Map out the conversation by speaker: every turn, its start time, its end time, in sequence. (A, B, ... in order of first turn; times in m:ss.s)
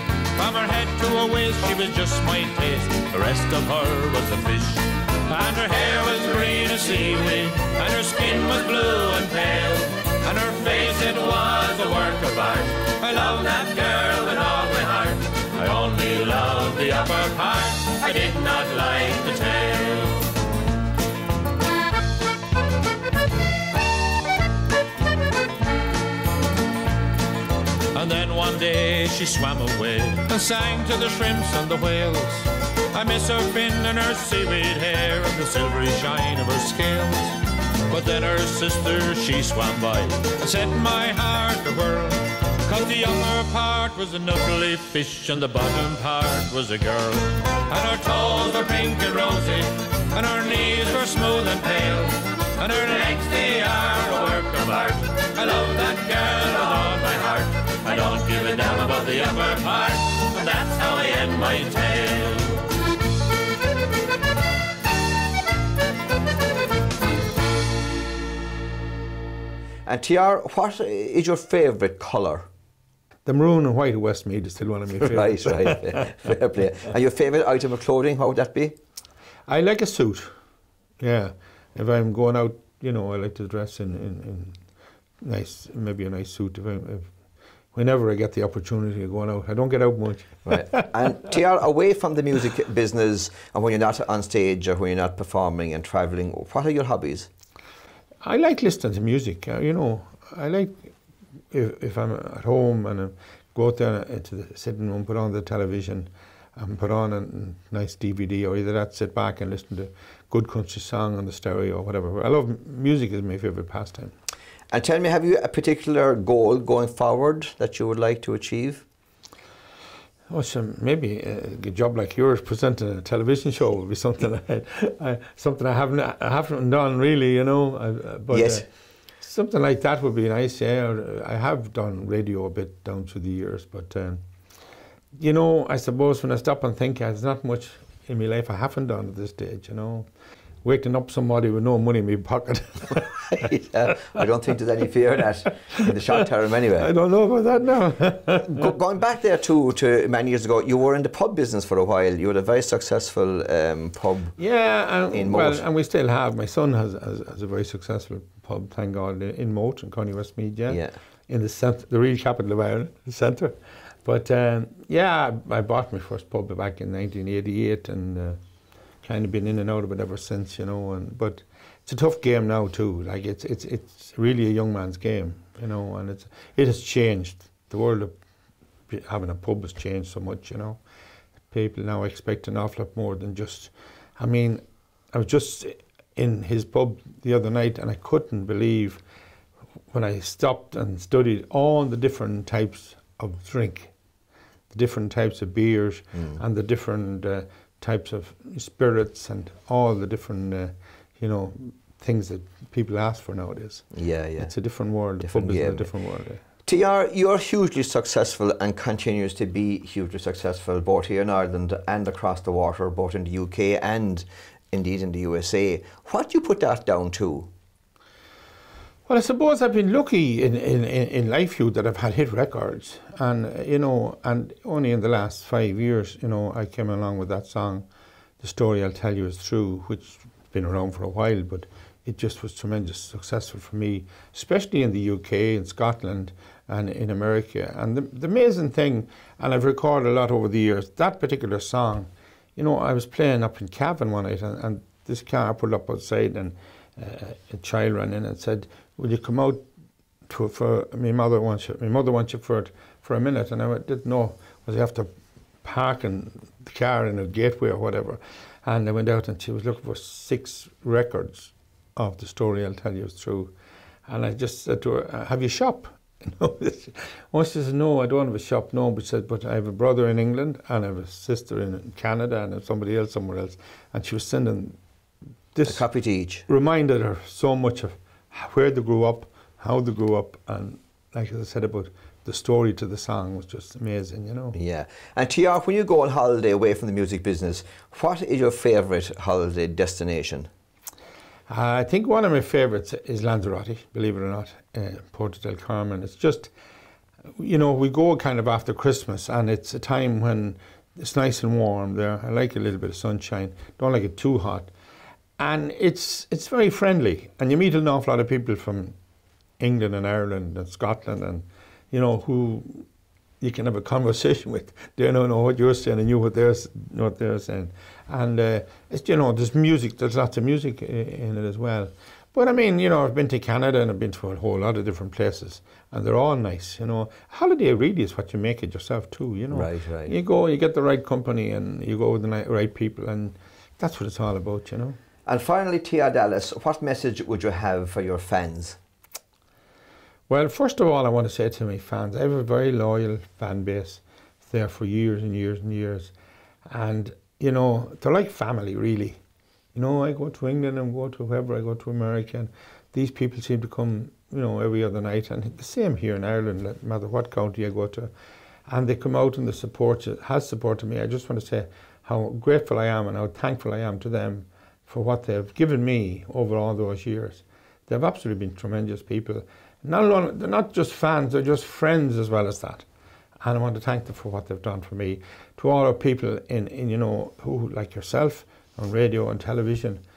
0:00.4-0:20.3 A
0:27.9-1:02.7 A
1:09.9-1:12.5 B
1:13.3-1:16.1 C
1:15.0-1:18.8 B
1:19.5-1:20.3 C
1:21.0-1:24.6 C
1:25.2-1:27.1 C
1:27.7-1:30.9 C
1:30.5-1:37.3 B
1:38.2-1:40.9 C
1:41.5-1:54.1 C
1:54.7-1:58.8 B
2:00.3-2:08.7 C
2:08.3-2:08.6 B
2:09.2-2:14.2 C
2:15.2-2:20.1 C
2:20.6-2:24.2 C
2:23.5-2:26.9 B
2:26.8-2:28.7 C
2:28.4-2:34.4 B
2:34.4-2:48.4 C
2:35.1-2:35.6 B
2:40.7-2:41.0 B
2:49.0-2:58.2 C
2:58.9-3:00.8 C
3:01.5-3:09.0 C
3:09.9-3:13.9 C
3:14.7-3:26.4 C
3:23.9-3:24.5 B
3:25.2-3:25.9 B
3:26.6-3:37.5 B
3:39.1-3:47.9 C
3:48.4-4:09.6 C
4:10.3-4:15.1 C
4:15.6-4:23.5 C
4:24.1-4:34.8 C
4:35.6-4:35.8 C
4:35.7-4:36.5 B
4:36.5-4:44.6 C
4:44.5-4:50.5 B
4:51.5-4:56.5 C
4:57.4-5:04.7 C
5:05.4-5:09.0 C
5:09.6-5:12.9 C
5:13.4-5:35.0 C
5:29.5-5:30.2 B
5:35.3-5:38.8 B
5:40.3-5:46.1 C
5:46.7-5:49.2 C
5:49.8-5:58.1 C
5:58.7-6:12.8 C
6:13.4-6:20.0 C